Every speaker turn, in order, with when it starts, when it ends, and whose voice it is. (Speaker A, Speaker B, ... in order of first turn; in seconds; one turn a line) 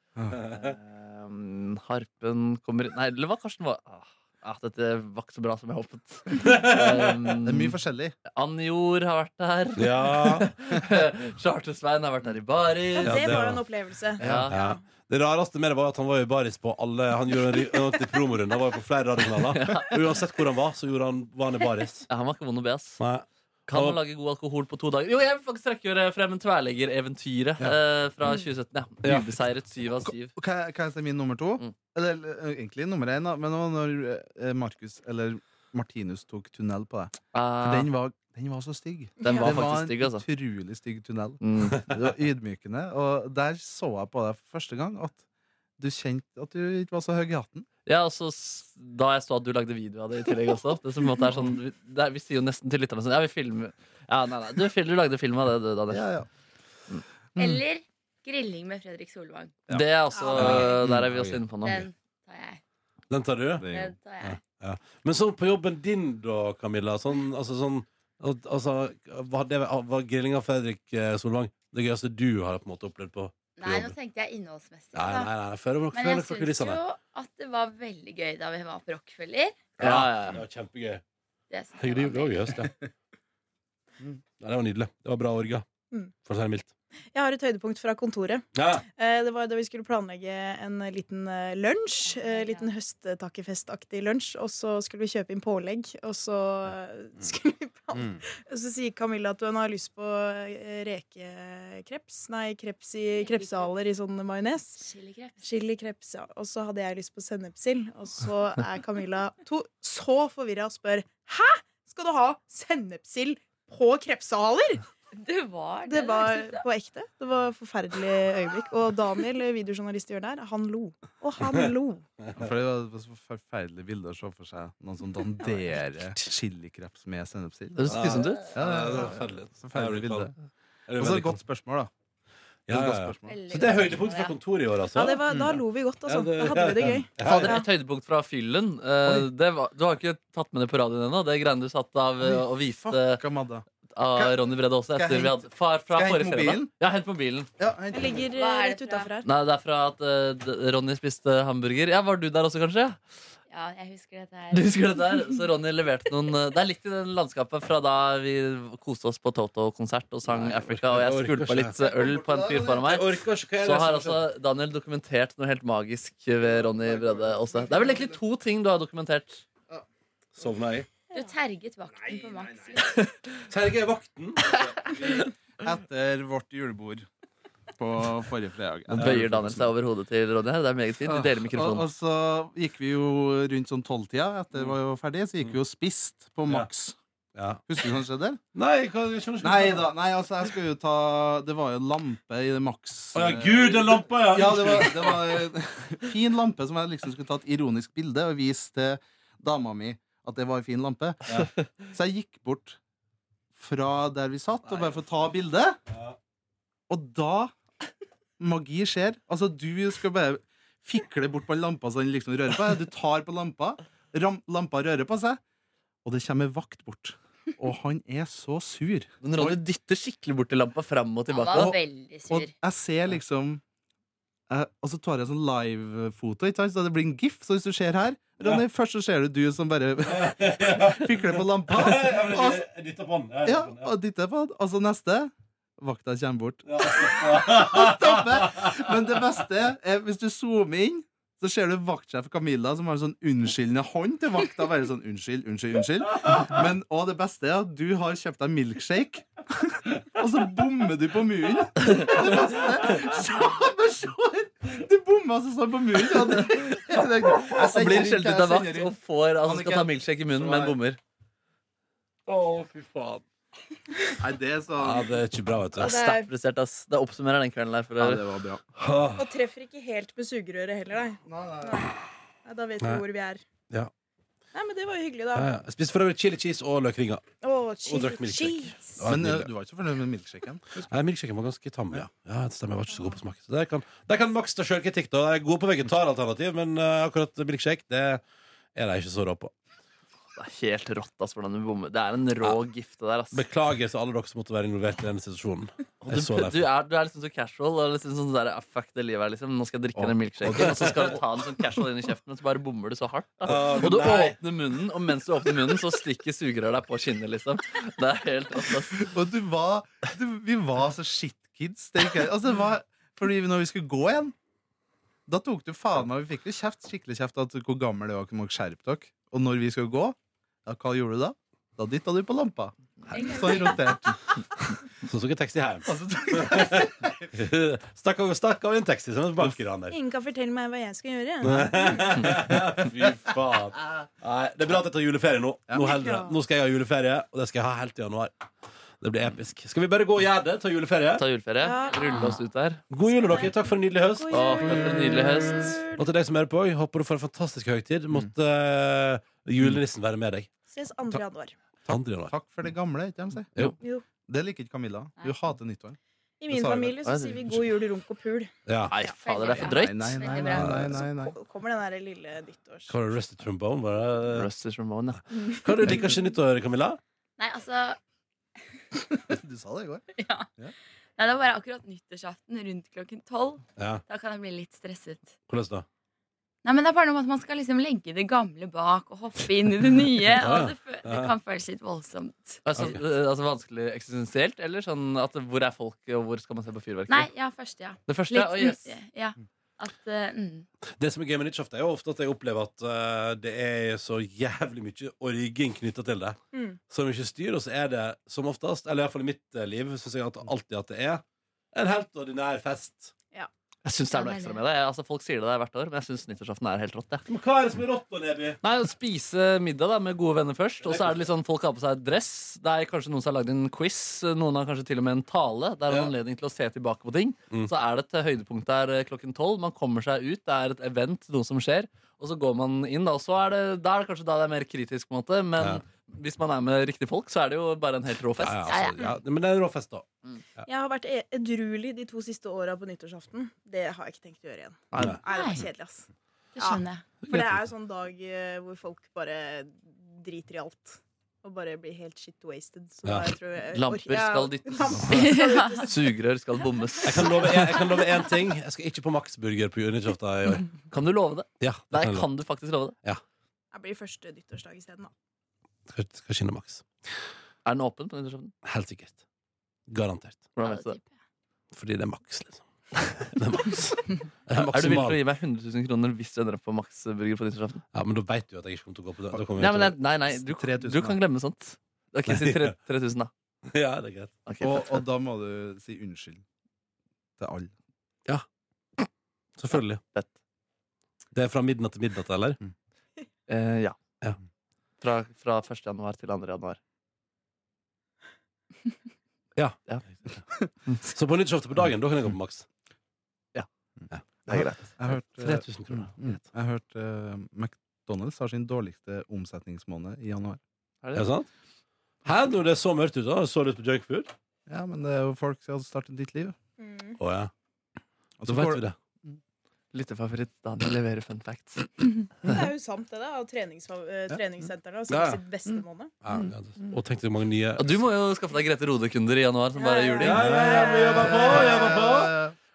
Speaker A: 0.4-0.7
Speaker B: 0.5-7.8
Speaker A: 6.4-6.9
Speaker C: 7.4-8.1
Speaker B: 8.3-13.3
Speaker A: 9.8-10.5
Speaker D: 12.9-14.8
Speaker A: 13.0-13.6
Speaker B: 14.2-14.5
Speaker C: 14.2-14.5
Speaker A: 14.3-22.1
Speaker B: 19.5-19.9
Speaker B: 22.1-23.0
Speaker A: 23.0-24.0
Speaker B: 23.7-30.3
Speaker A: 29.0-29.3
Speaker C: 30.0-45.2
Speaker B: 37.3-37.9
Speaker D: 39.2-39.5
Speaker B: 39.2-40.2
Speaker B: 41.4-41.9
Speaker C: 45.8-47.7
Speaker B: 47.9-56.1
Speaker C: 55.9-56.3
Speaker C: 57.3-57.6
Speaker E: 57.4-59.5
Speaker C: 59.7-61.4
Speaker B: 59.7-61.9
Speaker D: 60.1-60.7
Speaker A: 60.4-60.6
Speaker E: 61.6-62.6
Speaker A: 63.1-63.7
Speaker C: 63.6-64.0
Speaker E: 63.7-64.4
Speaker A: 64.2-73.9
Speaker E: 73.6-75.3
Speaker A: 74.9-76.8
Speaker E: 75.9-79.6
Speaker B: 79.8-80.4
Speaker A: 79.8-81.0
Speaker E: 81.5-82.6
Speaker A: 81.8-82.7
Speaker A: 84.4-85.6
Speaker A: 86.2-86.7
Speaker D: 87.1-88.4
Speaker A: 88.5-88.8
Speaker D: 88.9-104.8
Speaker E: 92.0-92.7
Speaker C: 97.9-98.2
Speaker E: 103.1-103.7
Speaker E: 104.8-105.5
Speaker D: 105.4-114.8
Speaker E: 115.1-116.6
Speaker D: 115.8-122.0
Speaker C: 122.3-130.3
Speaker B: 127.8-128.5
Speaker A: 127.9-130.3
Speaker A: 130.9-131.4
Speaker C: 130.9-131.9
Speaker A: 132.7-135.3
Speaker C: 132.7-133.8
Speaker E: 133.3-134.4
Speaker D: 134.9-137.7
Speaker C: 135.3-135.6
Speaker A: 136.1-137.6
Speaker B: 137.2-143.2
Speaker C: 142.2-143.6
Speaker B: 143.9-147.5
Speaker C: 144.9-146.7
Speaker C: 147.6-148.3
Speaker D: 147.9-149.3
Speaker E: 148.3-149.1
Speaker B: 149.2-153.0
Speaker E: 153.5-155.2
Speaker B: 154.5-169.4
Speaker A: 160.3-161.7
Speaker C: 161.8-162.9
Speaker A: 162.7-164.3
Speaker C: 166.4-168.2
Speaker A: 170.3-170.9
Speaker E: 171.1-173.1
Speaker C: 171.9-172.8
Speaker A: 173.5-175.2
Speaker C: 175.1-177.1
Speaker C: 177.8-179.7
Speaker B: 178.9-181.9
Speaker A: 179.0-179.3
Speaker C: 181.0-186.9
Speaker A: 187.3-187.6
Speaker C: 187.7-188.4
Speaker A: 188.5-189.9
Speaker C: 189.4-202.8
Speaker A: 193.1-195.4
Speaker C: 203.5-205.8
Speaker A: 205.9-206.2
Speaker C: 206.9-207.5
Speaker C: 208.4-215.4
Speaker C: 216.0-219.6
Speaker B: 219.2-221.7
Speaker E: 221.3-222.5
Speaker C: 221.5-223.6
Speaker C: 224.5-232.6
Speaker A: 230.1-233.9
Speaker C: 233.4-260.8
Speaker A: 236.7-238.8
Speaker B: 251.8-252.3
Speaker B: 257.5-261.0
Speaker A: 262.3-263.2
Speaker C: 264.2-265.2
Speaker A: 264.8-266.0
Speaker D: 265.7-266.3
Speaker B: 265.8-268.3
Speaker C: 268.0-268.6
Speaker A: 268.8-269.3
Speaker D: 269.2-273.4
Speaker C: 271.2-271.9
Speaker D: 274.5-275.5
Speaker A: 275.3-277.2
Speaker D: 277.4-279.1
Speaker A: 277.8-279.5
Speaker C: 279.1-280.9
Speaker A: 280.8-288.2
Speaker A: 288.7-289.5
Speaker B: 290.3-293.4
Speaker A: 293.3-296.6
Speaker B: 296.0-309.0
Speaker A: 300.4-301.2
Speaker A: 303.4-304.4
Speaker C: 308.9-314.3
Speaker C: 315.3-324.1
Speaker E: 323.1-323.8
Speaker D: 323.3-323.7
Speaker A: 325.0-330.0
Speaker C: 325.9-327.3
Speaker D: 329.9-331.9
Speaker A: 331.4-338.3
Speaker D: 335.8-336.3
Speaker A: 339.0-341.2
Speaker B: 341.2-342.8
Speaker D: 341.6-342.4
Speaker E: 341.9-342.3
Speaker A: 342.9-350.5
Speaker D: 343.2-346.1
Speaker B: 344.3-345.8
Speaker D: 350.7-351.5
Speaker C: 351.8-353.5
Speaker A: 351.9-352.3
Speaker D: 353.8-354.0
Speaker C: 354.3-356.0
Speaker D: 356.4-359.2
Speaker C: 356.5-357.0
Speaker B: 357.0-357.4
Speaker A: 358.7-359.1
Speaker B: 358.9-360.3
Speaker E: 359.2-360.7
Speaker C: 359.5-361.4
Speaker A: 360.5-360.9
Speaker D: 360.5-362.9
Speaker A: 362.9-364.5
Speaker B: 364.3-365.2
Speaker A: 365.4-367.0
Speaker E: 367.4-368.0
Speaker C: 369.2-370.1
Speaker E: 370.1-370.5
Speaker E: 371.2-375.3
Speaker A: 373.8-374.0
Speaker A: 375.5-375.8
Speaker E: 376.6-382.6
Speaker A: 380.4-381.3
Speaker B: 382.6-387.3
Speaker A: 382.7-383.0
Speaker E: 387.1-390.7
Speaker B: 388.1-388.9
Speaker A: 391.0-396.4
Speaker D: 396.5-396.8
Speaker A: 396.9-403.1
Speaker B: 403.8-407.2
Speaker E: 404.1-404.6
Speaker A: 407.3-408.6
Speaker B: 408.6-428.7
Speaker A: 410.8-411.1
Speaker A: 428.4-430.1
Speaker E: 428.7-429.1
Speaker D: 430.6-446.2
Speaker B: 434.9-435.2
Speaker E: 435.3-435.6
Speaker E: 436.6-437.1
Speaker A: 437.3-437.7
Speaker A: 443.0-443.3
Speaker B: 443.7-447.8
Speaker E: 445.1-445.8
Speaker A: 447.0-450.7
Speaker B: 450.9-452.9
Speaker A: 451.6-452.3
Speaker D: 453.7-455.1
Speaker A: 455.9-456.9
Speaker B: 457.6-458.5
Speaker A: 458.6-459.1
Speaker A: 459.9-460.5
Speaker B: 460.5-461.0
Speaker E: 460.6-461.0
Speaker A: 461.7-465.2
Speaker B: 464.6-467.8
Speaker A: 467.9-469.9
Speaker B: 469.6-473.3
Speaker C: 470.3-471.2
Speaker A: 472.2-472.7
Speaker A: 473.7-474.3
Speaker B: 474.4-475.0
Speaker C: 474.6-476.4
Speaker C: 477.4-477.7
Speaker A: 479.6-480.0
Speaker A: 481.3-482.6
Speaker B: 483.5-484.0
Speaker B: 485.0-486.8
Speaker A: 489.6-490.4
Speaker A: 491.0-492.6
Speaker B: 494.4-494.9
Speaker C: 494.6-500.6
Speaker A: 495.3-496.4
Speaker B: 501.0-501.3
Speaker A: 501.1-501.5
Speaker A: 502.2-504.3
Speaker C: 504.7-506.6
Speaker D: 506.8-507.2
Speaker A: 507.2-507.5
Speaker C: 508.4-509.4
Speaker A: 508.4-508.9
Speaker B: 509.9-512.1
Speaker D: 512.4-516.1
Speaker A: 515.1-515.4
Speaker A: 516.2-518.0
Speaker B: 517.8-520.6
Speaker D: 519.7-522.0
Speaker A: 520.2-522.3
Speaker C: 521.0-522.5